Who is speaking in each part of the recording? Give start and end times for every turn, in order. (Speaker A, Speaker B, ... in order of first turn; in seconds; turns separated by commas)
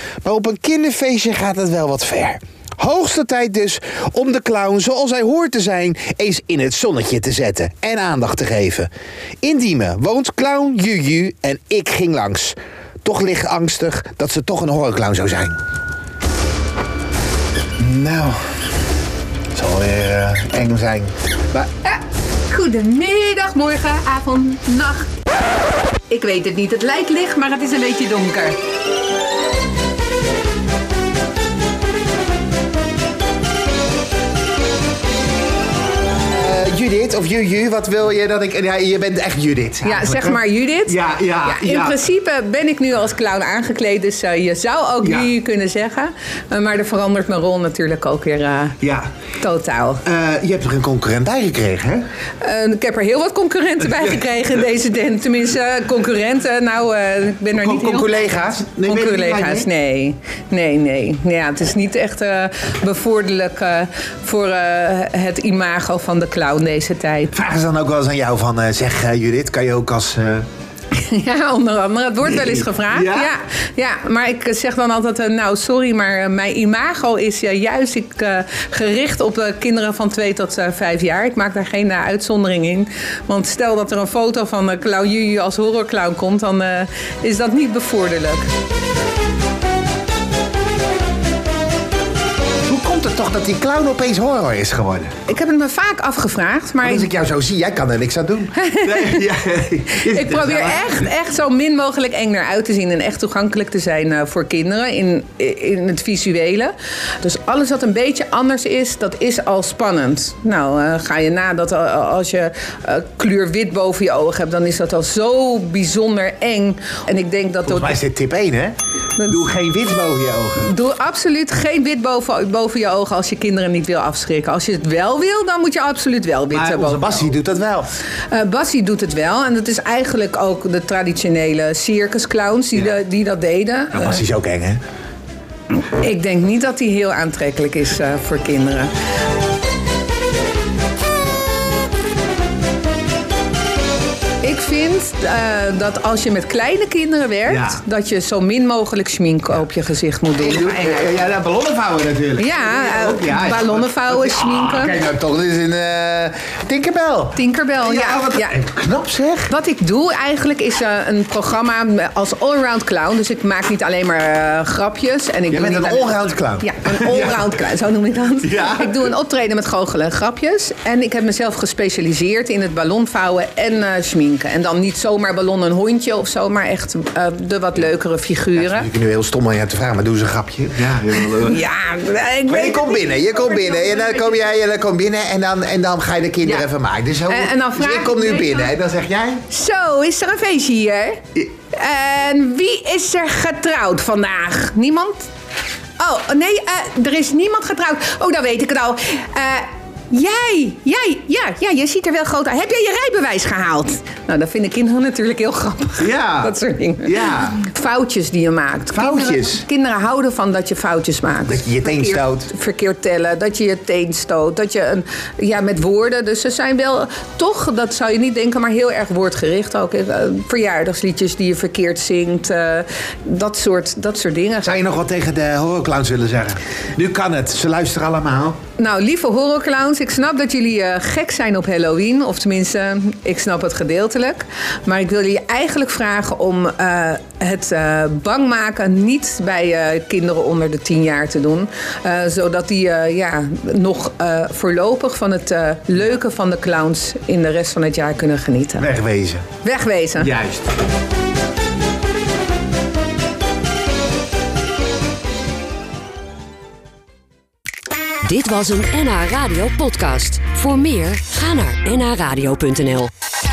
Speaker A: 0.2-8.9, Speaker A: 9.4-15.6, Speaker A: 17.8-18.4, Speaker A: 19.5-21.6, Speaker B: 21.8-25.1, Speaker B: 26.1-28.6, Speaker A: 36.3-42.0, Speaker B: 39.8-48.8, Speaker A: 45.0-45.3, Speaker A: 48.8-49.1, Speaker B: 49.4-50.0, Speaker A: 50.0-52.0, Speaker B: 52.4-67.3, Speaker A: 53.9-54.2, Speaker A: 57.5-59.7, Speaker A: 67.3-70.5, Speaker B: 70.9-88.5, Speaker A: 72.2-73.3, Speaker A: 92.7-95.1, Speaker B: 95.3-97.1, Speaker A: 96.8-101.0, Speaker B: 98.6-99.2, Speaker B: 100.0-118.0, Speaker A: 117.7-120.7, Speaker B: 119.2-119.5, Speaker B: 120.6-127.2, Speaker A: 126.5-127.9, Speaker B: 128.3-134.2, Speaker A: 133.9-134.8, Speaker B: 135.7-138.9, Speaker B: 144.4-151.1, Speaker A: 147.5-147.8, Speaker A: 150.4-159.5, Speaker B: 152.4-155.0, Speaker B: 157.3-158.5, Speaker B: 159.5-178.9, Speaker A: 165.5-167.5, Speaker A: 168.4-169.0, Speaker A: 178.6-181.6, Speaker B: 181.3-184.5, Speaker A: 182.5-189.4, Speaker B: 187.3-188.7, Speaker B: 189.5-195.3, Speaker B: 196.0-224.8, Speaker A: 206.0-207.6, Speaker A: 208.9-209.6, Speaker A: 211.4-212.5, Speaker A: 224.6-228.6, Speaker B: 228.8-248.9, Speaker A: 248.8-249.4, Speaker B: 249.6-250.3, Speaker A: 250.2-250.6, Speaker C: 258.2-263.1